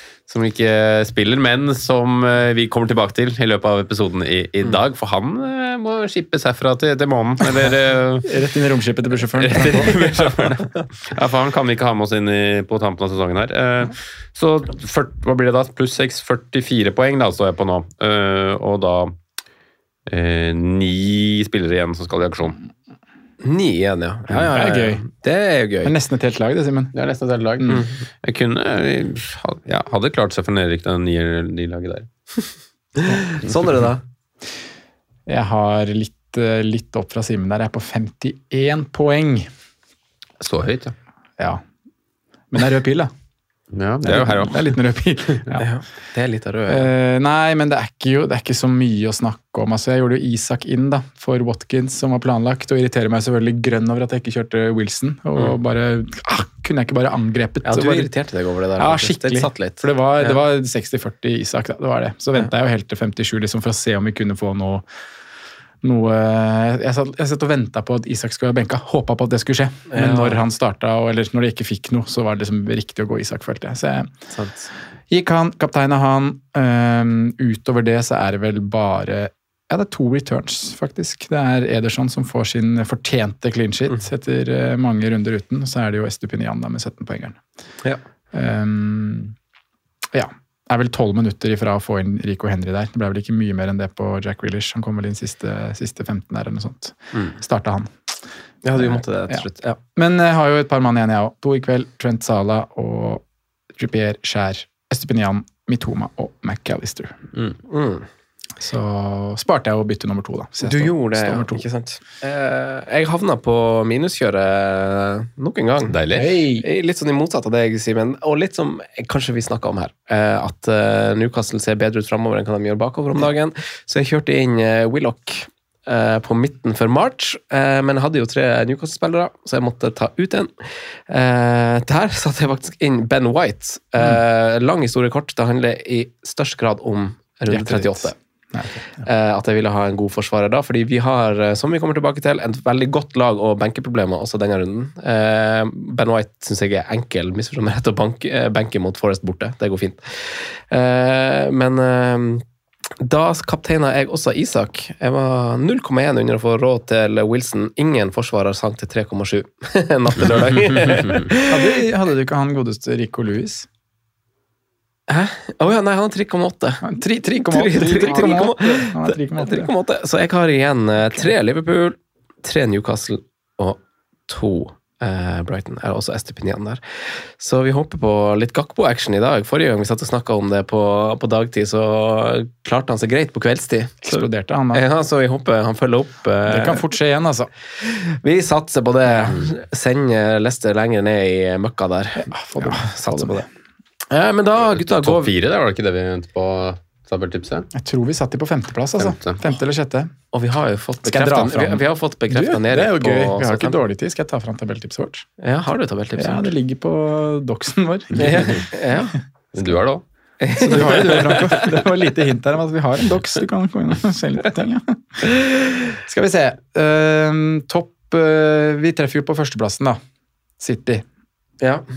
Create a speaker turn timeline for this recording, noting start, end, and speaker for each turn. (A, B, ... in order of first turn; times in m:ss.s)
0:00.3-0:08.3 A
0:08.2-0:10.1 B
0:09.4-0:19.1 A
0:20.1-0:22.6 A
0:23.4-0:25.9 C
0:24.4-0:25.0 B
0:25.8-0:27.0 B
0:27.0-0:32.1 A
0:27.6-0:27.8 B
0:33.0-0:34.0 C
0:35.3-0:39.5 B
0:40.4-0:40.9 A
0:42.5-0:43.1 B
0:43.7-0:44.7 A
0:44.0-0:45.7 B
0:45.6-0:46.9 C
0:46.7-0:58.1 B
0:57.6-1:00.4 C
0:58.8-1:04.8 B
1:05.8-1:14.1 B
1:09.9-1:10.4 C
1:14.3-1:14.7 C
1:15.1-1:27.4 B
1:28.3-1:29.3 B
1:30.1-1:37.9 B
1:38.6-1:39.8 C
1:38.8-1:39.4 B
1:40.0-1:43.2 B
1:43.8-1:47.2 B
1:47.6-1:48.1 C
1:48.6-1:51.6 B
1:50.6-2:10.5 C
1:55.9-1:56.4 A
2:11.1-2:18.1 C
2:17.5-2:19.0 B
2:19.0-2:32.4 C
2:33.0-2:41.8 C
2:40.8-2:41.2 A
2:41.5-2:43.7 B
2:45.1-2:46.9 C
2:46.8-2:49.7 B
2:47.4-2:56.8 C
2:57.4-3:06.9 C
3:04.0-3:04.8 B
3:06.5-3:07.5 B
3:07.8-3:13.5 C
3:12.2-3:13.4 B
3:14.1-3:15.3 C
3:14.6-3:17.7 A
3:17.7-3:20.1 B
3:19.0-3:19.4 A
3:20.3-3:23.8 C
3:21.0-3:25.2 B
3:25.4-3:26.5 C
3:26.2-3:28.6 B
3:28.2-3:29.1 C
3:29.6-3:30.0 A
3:30.4-3:31.8 C
3:30.6-3:35.0 B
3:36.1-3:40.0 B
3:40.6-3:41.0 B